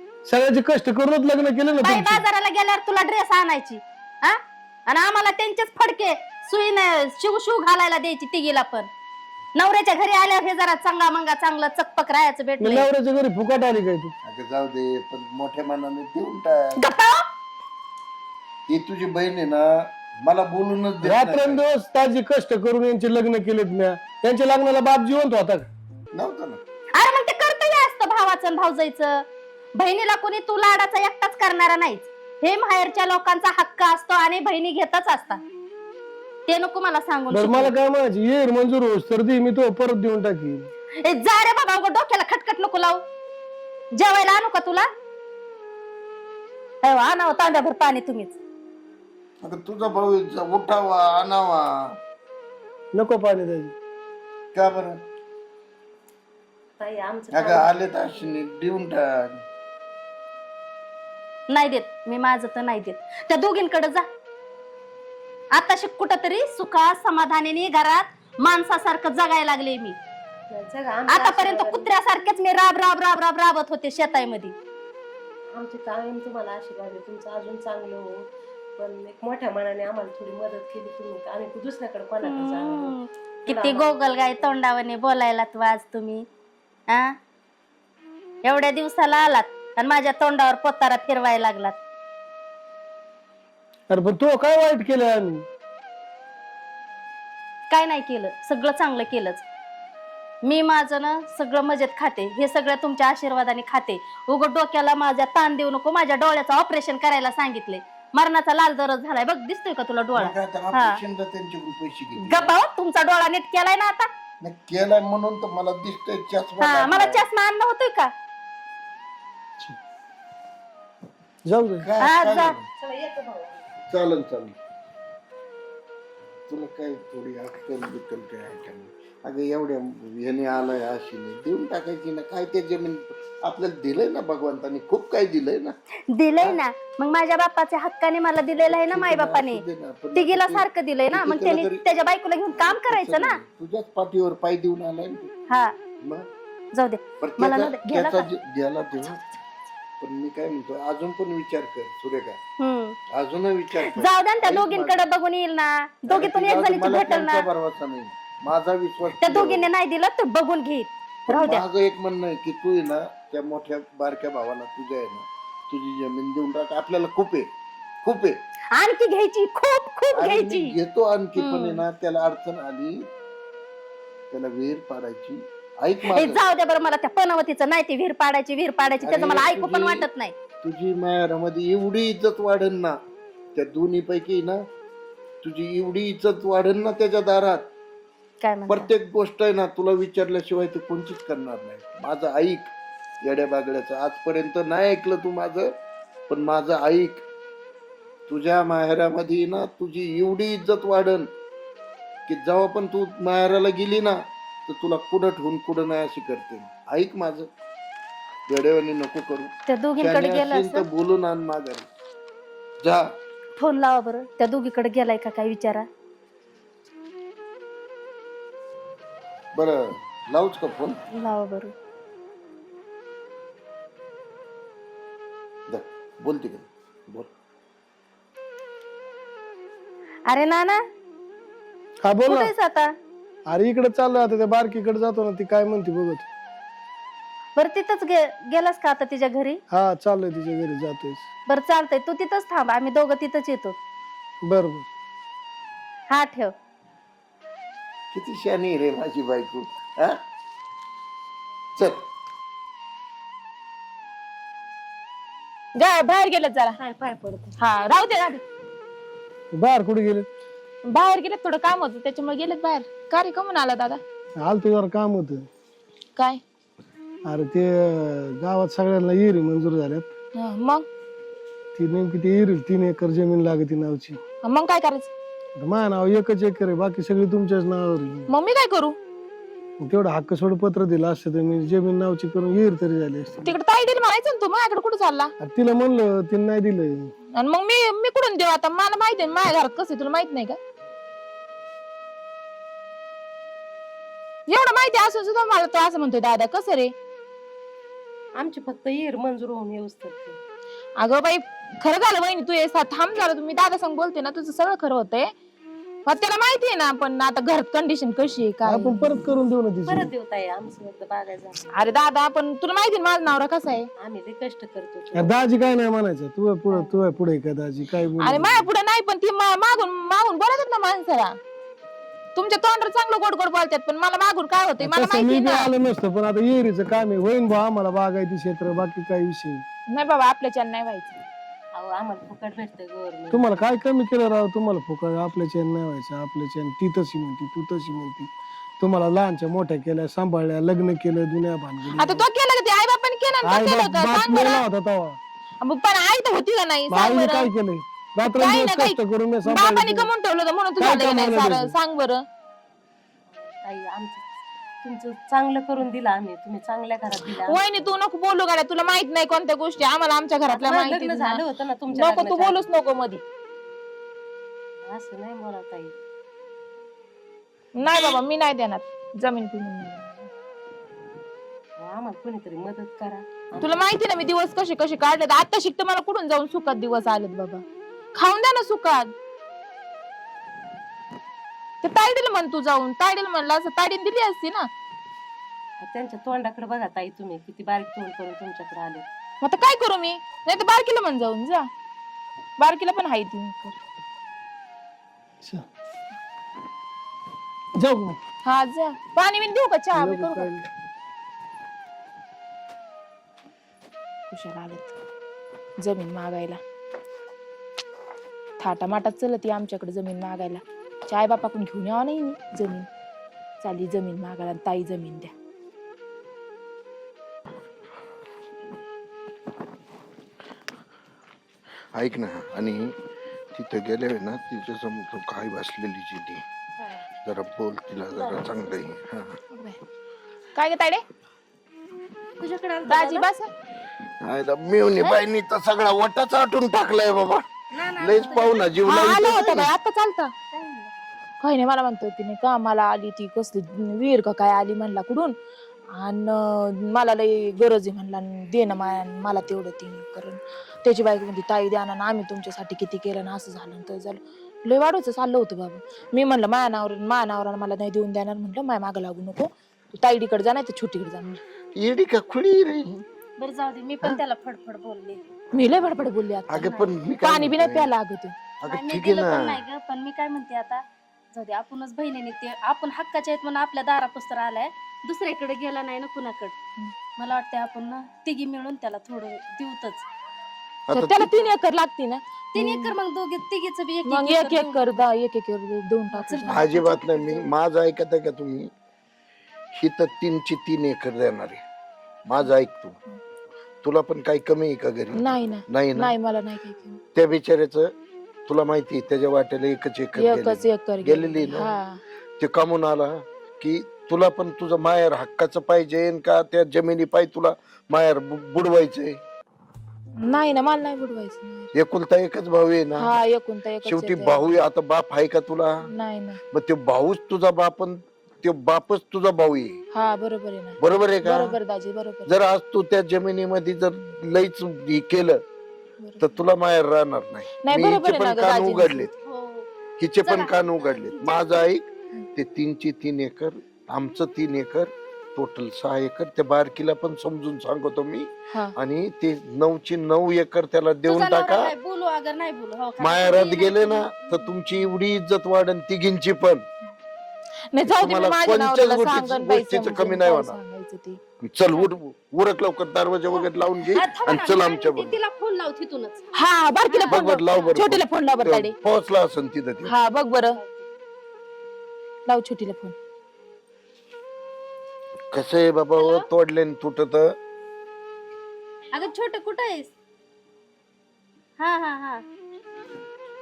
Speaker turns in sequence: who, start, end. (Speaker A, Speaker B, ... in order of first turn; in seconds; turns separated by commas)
Speaker A: 0.2-2.2, Speaker B: 1.8-8.9, Speaker B: 9.6-12.9, Speaker A: 12.6-14.1, Speaker C: 14.2-16.8, Speaker B: 16.8-17.3, Speaker C: 18.7-21.6, Speaker A: 21.0-25.7, Speaker C: 26.1-26.6, Speaker B: 26.9-29.2, Speaker B: 29.8-35.4, Speaker B: 36.5-37.7, Speaker A: 37.3-40.7, Speaker B: 41.0-43.0, Speaker B: 43.9-44.9, Speaker B: 46.8-48.4, Speaker C: 49.4-51.9, Speaker A: 52.9-53.7, Speaker C: 54.5-55.0, Speaker D: 56.8-58.2, Speaker C: 57.3-59.4, Speaker B: 61.5-64.0, Speaker B: 65.5-70.0, Speaker D: 70.5-71.9, Speaker B: 71.1-74.5, Speaker D: 75.5-78.2, Speaker D: 78.8-82.9, Speaker B: 82.2-86.2, Speaker D: 83.5-84.5, Speaker B: 86.9-87.1, Speaker B: 88.4-91.8, Speaker A: 93.9-95.4, Speaker B: 97.7-99.4, Speaker B: 100.4-111.0, Speaker C: 110.1-112.5, Speaker B: 112.2-114.1, Speaker C: 114.4-117.2, Speaker B: 116.6-118.1, Speaker A: 121.5-121.8, Speaker C: 121.8-122.6, Speaker B: 122.0-122.5, Speaker D: 122.8-123.6, Speaker C: 123.9-124.5, Speaker C: 126.5-135.8, Speaker B: 136.1-139.6, Speaker C: 138.6-141.8, Speaker B: 140.1-143.4, Speaker C: 142.5-145.3, Speaker C: 146.0-146.3, Speaker B: 146.7-148.3, Speaker C: 147.2-149.2, Speaker C: 150.0-152.4, Speaker B: 152.6-153.0, Speaker C: 153.1-155.0, Speaker B: 153.9-157.5, Speaker C: 156.1-159.7, Speaker B: 159.2-161.6, Speaker C: 161.3-167.5, Speaker C: 168.0-168.4, Speaker B: 168.7-170.7, Speaker C: 170.1-173.0, Speaker B: 171.4-171.8, Speaker C: 174.3-176.4, Speaker B: 176.1-180.3, Speaker C: 179.0-180.1, Speaker C: 180.6-183.0, Speaker C: 183.5-184.6, Speaker C: 185.4-187.7, Speaker B: 188.4-188.9, Speaker C: 188.7-192.7, Speaker C: 193.2-195.7, Speaker C: 196.3-197.2, Speaker C: 198.3-201.3, Speaker C: 202.3-207.5, Speaker C: 208.5-211.9, Speaker B: 209.7-210.8, Speaker B: 213.6-215.9, Speaker C: 219.5-221.0, Speaker B: 221.1-221.7, Speaker C: 225.7-227.3, Speaker B: 230.3-230.8, Speaker A: 232.0-232.5, Speaker B: 232.2-232.9, Speaker A: 233.5-236.3, Speaker B: 237.6-239.6, Speaker A: 239.7-241.3, Speaker B: 241.5-243.8, Speaker A: 244.4-244.9, Speaker B: 246.1-246.5, Speaker C: 248.1-250.2, Speaker C: 251.8-252.0, Speaker E: 255.8-256.8, Speaker D: 256.8-257.5, Speaker E: 257.6-258.4, Speaker A: 259.5-260.3, Speaker E: 260.9-264.0, Speaker A: 264.4-265.4, Speaker A: 267.3-270.1, Speaker E: 270.4-270.9, Speaker A: 271.8-274.2, Speaker E: 274.4-275.1, Speaker A: 275.6-278.3, Speaker E: 278.3-278.9, Speaker A: 279.8-283.5, Speaker E: 283.4-285.3, Speaker A: 285.4-287.1, Speaker E: 287.4-290.6, Speaker E: 294.5-296.9, Speaker D: 298.4-300.4, Speaker E: 301.0-305.3, Speaker E: 306.1-309.0, Speaker A: 308.6-310.1, Speaker D: 309.8-311.6, Speaker E: 311.7-313.9, Speaker D: 314.0-315.4, Speaker A: 315.1-318.6, Speaker E: 318.2-321.4, Speaker E: 322.3-325.7, Speaker A: 324.8-329.6, Speaker E: 329.9-331.2, Speaker D: 331.7-333.6, Speaker A: 333.3-342.2, Speaker E: 342.0-344.6, Speaker A: 343.4-345.2, Speaker E: 345.6-347.5, Speaker A: 346.9-350.1, Speaker E: 348.3-352.2, Speaker A: 350.8-351.7, Speaker D: 353.3-354.2, Speaker D: 354.8-357.7, Speaker E: 357.4-363.2, Speaker D: 360.5-362.6, Speaker D: 364.8-365.9, Speaker E: 367.8-370.2, Speaker D: 371.8-373.7, Speaker E: 373.6-377.6, Speaker E: 378.2-379.1, Speaker E: 381.8-384.7, Speaker D: 385.8-389.0, Speaker E: 389.4-391.7, Speaker E: 392.6-393.8, Speaker A: 397.8-398.2, Speaker E: 398.4-400.5, Speaker A: 399.9-400.7, Speaker E: 404.3-404.9, Speaker E: 405.8-406.6, Speaker E: 408.6-412.9, Speaker E: 413.6-415.3, Speaker C: 421.9-422.9, Speaker C: 423.5-426.4, Speaker C: 427.2-429.4, Speaker E: 429.5-429.8, Speaker E: 430.5-431.0, Speaker B: 432.4-433.2, Speaker E: 432.9-433.5, Speaker C: 434.2-437.4, Speaker B: 437.7-438.7, Speaker C: 438.0-439.7, Speaker E: 438.8-440.3, Speaker B: 440.5-440.9, Speaker E: 441.4-445.4, Speaker E: 446.0-461.4, Speaker C: 461.8-462.9, Speaker B: 463.4-465.2, Speaker E: 465.5-468.3, Speaker C: 466.5-467.9, Speaker C: 468.6-469.6, Speaker B: 468.7-476.5, Speaker B: 477.2-480.0, Speaker C: 480.9-481.3, Speaker E: 480.9-482.9, Speaker B: 482.5-484.9, Speaker E: 484.1-486.7, Speaker B: 486.1-487.4, Speaker C: 486.5-488.7, Speaker C: 489.7-491.6, Speaker C: 492.2-493.0, Speaker C: 493.8-496.1, Speaker E: 495.2-497.0, Speaker C: 497.1-497.9, Speaker C: 498.5-501.8, Speaker E: 500.1-502.0, Speaker C: 502.4-509.2, Speaker E: 510.2-511.7, Speaker C: 511.7-513.1, Speaker E: 513.0-514.4, Speaker C: 513.8-515.8, Speaker E: 515.9-516.4, Speaker C: 516.5-519.8, Speaker E: 519.9-522.3, Speaker C: 520.8-521.5, Speaker C: 522.2-525.4, Speaker E: 526.0-526.4, Speaker C: 526.2-529.1, Speaker E: 527.6-529.1, Speaker B: 529.2-529.7, Speaker C: 530.0-541.7, Speaker B: 530.2-531.6, Speaker B: 541.1-544.3, Speaker C: 543.0-546.6, Speaker E: 547.7-551.2, Speaker C: 547.8-550.6, Speaker C: 551.4-555.1, Speaker B: 553.3-556.3, Speaker E: 556.3-558.8, Speaker B: 556.9-557.8, Speaker C: 557.1-559.9, Speaker E: 559.9-560.6, Speaker B: 560.4-560.8, Speaker E: 562.3-562.9, Speaker C: 565.3-567.4, Speaker B: 566.0-566.3, Speaker B: 568.9-569.9, Speaker B: 571.6-572.2